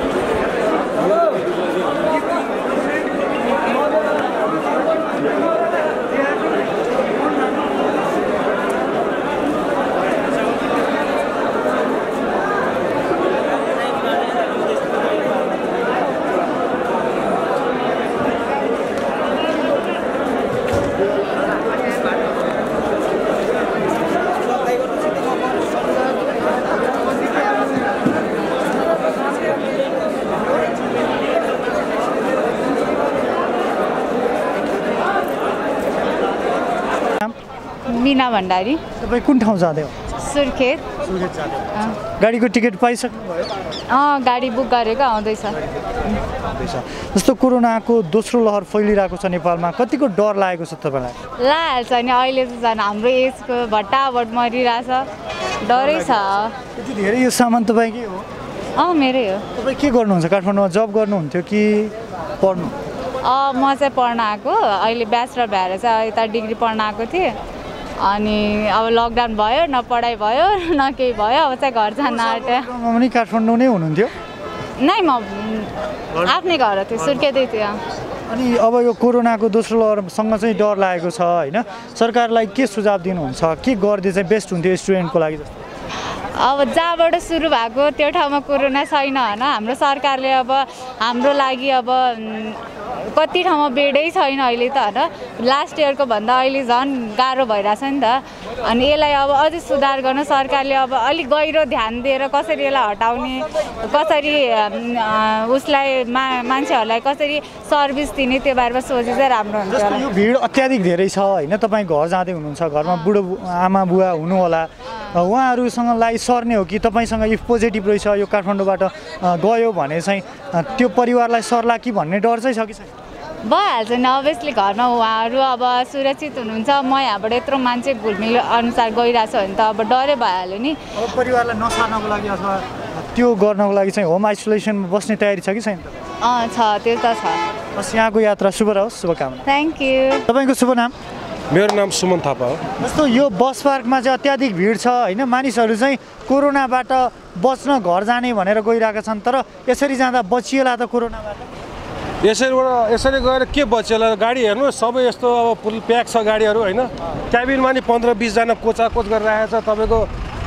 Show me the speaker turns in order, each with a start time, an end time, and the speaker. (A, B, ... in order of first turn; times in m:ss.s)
0:37.9-0:38.8 A
0:39.0-0:40.0 B
0:40.1-0:40.9 A
0:41.0-0:43.5 B
0:43.9-0:45.6 A
0:46.5-0:51.2 B
0:51.4-0:55.1 A
0:55.6-0:56.6 A
0:55.8-0:58.3 B
0:58.8-0:59.5 A
0:59.6-1:02.8 B
1:03.2-1:07.4 A
1:08.0-1:12.7 A
1:12.1-1:14.1 B
1:14.8-1:17.8 A
1:18.3-1:25.6 B
1:26.4-1:50.1 A
1:49.7-2:02.9 B
1:52.8-1:53.1 A
1:55.0-1:55.2 A
2:03.4-2:10.8 A
2:11.0-2:16.0 B
2:16.2-2:17.4 A
2:17.8-2:19.5 B
2:19.5-2:20.3 A
2:20.3-2:21.0 B
2:21.5-2:22.6 C
2:22.8-2:31.5 B
2:32.2-2:40.1 C